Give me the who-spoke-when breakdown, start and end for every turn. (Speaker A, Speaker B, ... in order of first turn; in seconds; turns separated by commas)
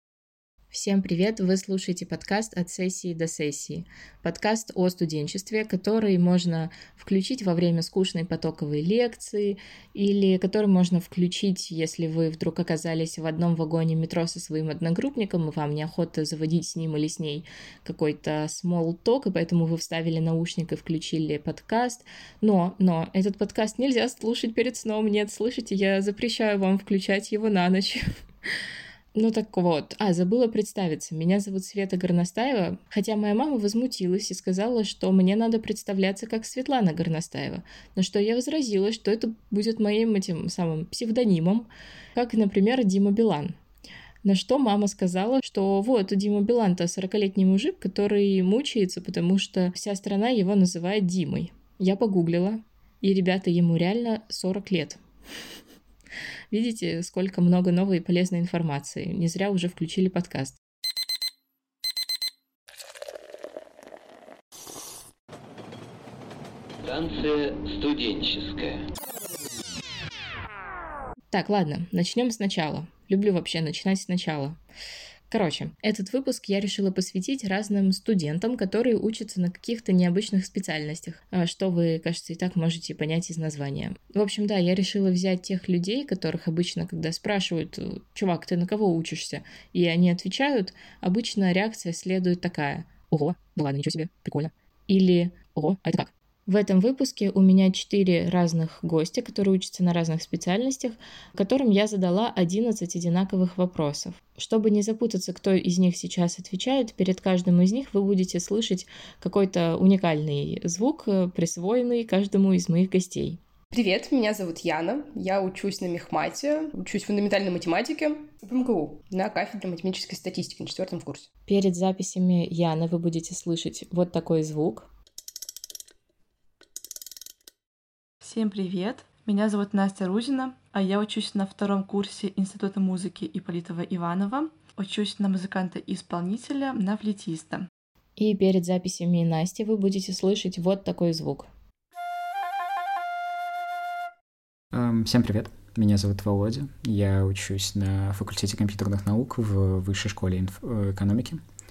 Speaker A: 0.7-28.1, Speaker A: 29.1-43.6, Speaker A: 44.2-55.0, Speaker A: 56.5-60.6, Speaker B: 66.8-68.8, Speaker A: 71.3-74.6, Speaker A: 75.3-113.4, Speaker C: 113.7-121.3, Speaker A: 121.5-124.9, Speaker D: 128.2-137.7, Speaker A: 138.2-141.5, Speaker E: 144.7-151.4